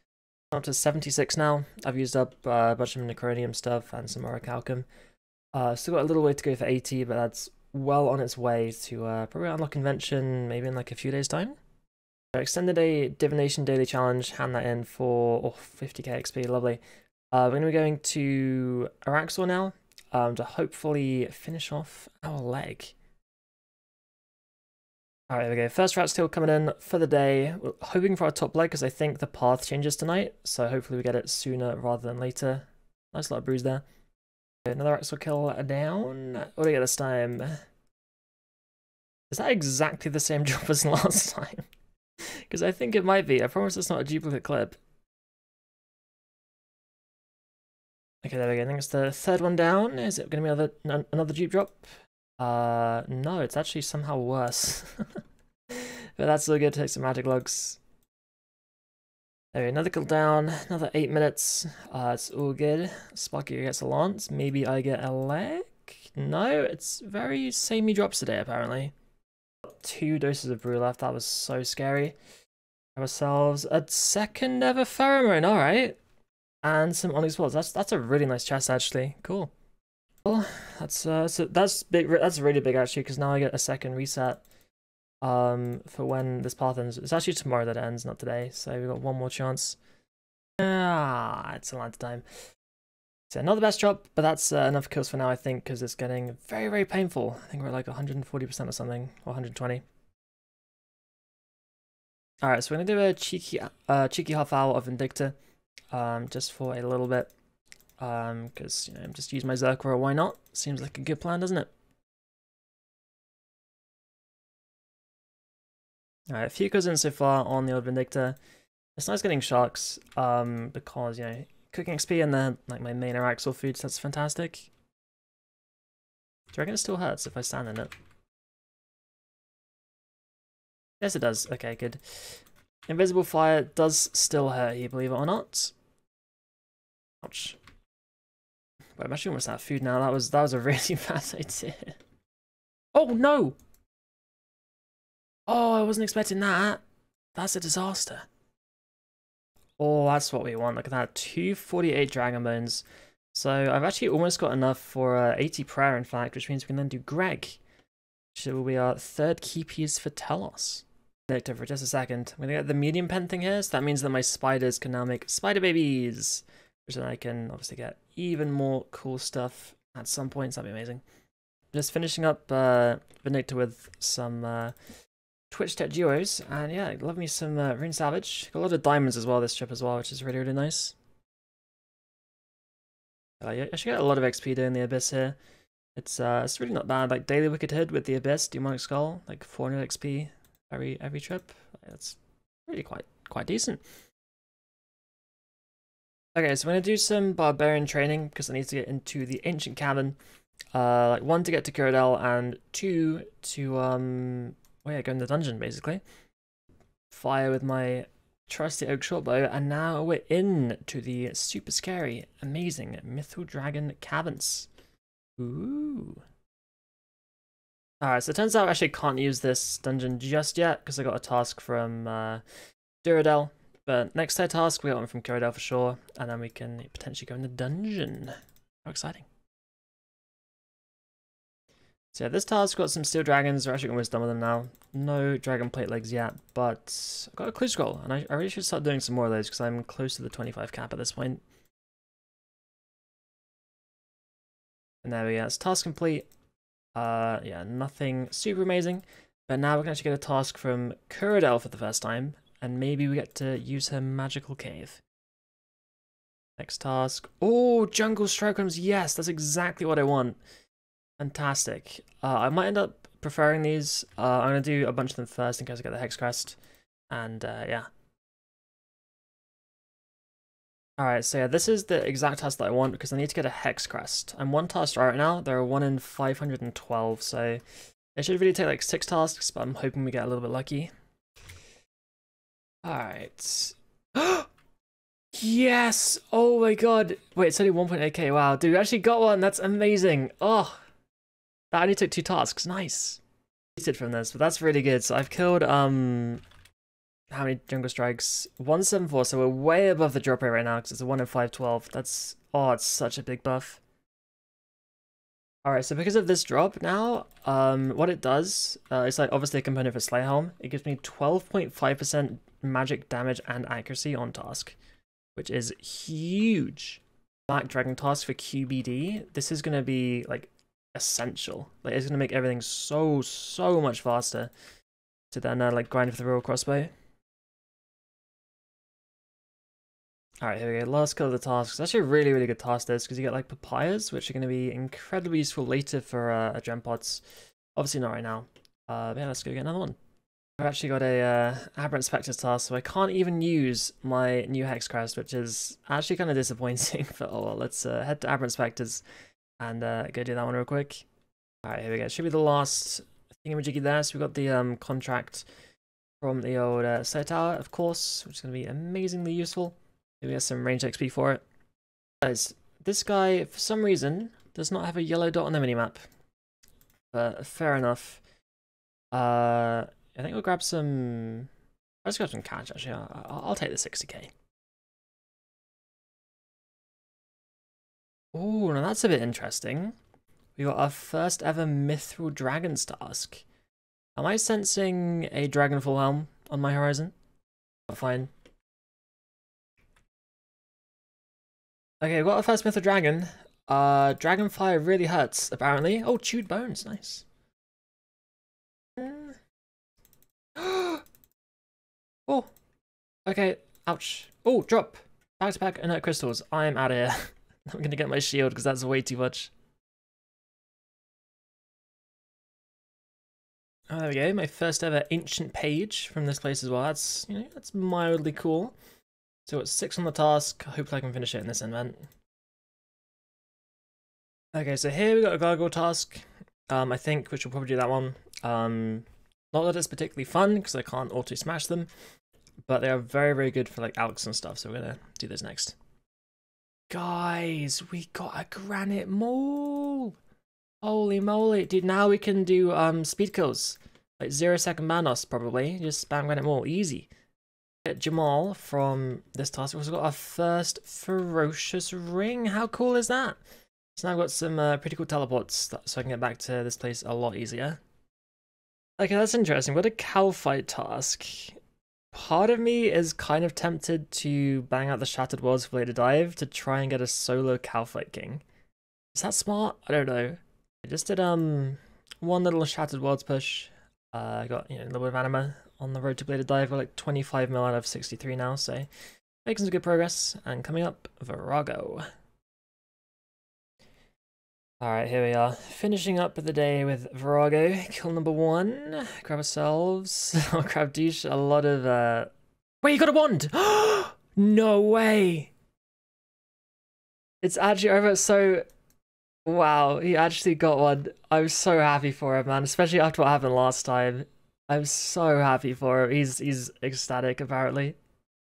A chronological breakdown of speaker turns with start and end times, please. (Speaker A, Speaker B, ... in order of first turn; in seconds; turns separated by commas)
Speaker A: 0.5-4.9, Speaker A: 5.5-11.6, Speaker A: 12.3-16.8, Speaker A: 17.3-22.9, Speaker A: 25.3-33.8, Speaker A: 34.6-37.6, Speaker A: 39.3-41.7, Speaker A: 42.2-44.8, Speaker A: 48.2-57.8, Speaker A: 59.5-68.9, Speaker A: 69.6-72.2, Speaker A: 73.0-76.0, Speaker A: 76.6-79.5, Speaker A: 80.2-84.4, Speaker A: 85.2-89.8, Speaker A: 90.6-92.2, Speaker A: 93.3-99.8, Speaker A: 102.4-105.4, Speaker A: 105.9-107.3, Speaker A: 108.0-111.7, Speaker A: 116.3-118.4, Speaker A: 119.0-124.7, Speaker A: 126.5-127.9, Speaker A: 131.0-135.7, Speaker A: 137.2-137.6, Speaker A: 139.0-142.0, Speaker A: 142.9-143.6, Speaker A: 145.5-146.8, Speaker A: 147.4-148.3, Speaker A: 149.8-157.6, Speaker A: 158.3-171.0, Speaker A: 171.7-174.8, Speaker A: 175.5-180.9, Speaker A: 183.4-185.4, Speaker A: 186.0-193.8, Speaker A: 196.3-200.2, Speaker A: 200.7-206.0, Speaker A: 207.1-214.7, Speaker A: 215.4-216.2, Speaker A: 218.0-222.4, Speaker A: 223.0-229.3, Speaker A: 232.1-241.4, Speaker A: 245.0-246.3, Speaker A: 246.9-255.0, Speaker A: 256.6-260.4, Speaker A: 261.2-266.6, Speaker A: 267.1-267.9, Speaker A: 271.0-277.6, Speaker A: 278.2-280.9, Speaker A: 282.8-284.5, Speaker A: 285.3-290.8, Speaker A: 291.7-293.2, Speaker A: 293.8-296.4, Speaker A: 297.3-303.8, Speaker A: 305.6-314.8, Speaker A: 315.4-324.5, Speaker A: 325.3-326.9, Speaker A: 330.4-337.2, Speaker A: 337.8-340.0, Speaker A: 340.6-349.0, Speaker A: 349.6-351.1, Speaker A: 351.6-355.5, Speaker A: 356.2-361.4, Speaker A: 362.2-366.1, Speaker A: 367.1-368.2, Speaker A: 369.1-371.5, Speaker A: 372.0-374.3, Speaker A: 378.3-379.9, Speaker A: 380.6-383.4, Speaker A: 384.2-387.1, Speaker A: 387.9-388.3, Speaker A: 392.0-397.2, Speaker A: 399.0-399.4, Speaker A: 400.6-401.0, Speaker A: 403.3-409.5, Speaker A: 413.9-418.8, Speaker A: 419.5-422.1, Speaker A: 424.5-431.9, Speaker A: 432.7-435.8, Speaker A: 436.9-440.1, Speaker A: 440.8-447.1, Speaker A: 447.8-453.4, Speaker A: 454.0-457.8, Speaker A: 459.0-461.6, Speaker A: 462.1-468.4, Speaker A: 469.1-478.9, Speaker A: 479.4-482.1, Speaker A: 484.8-495.5, Speaker A: 497.4-498.7, Speaker A: 499.5-508.0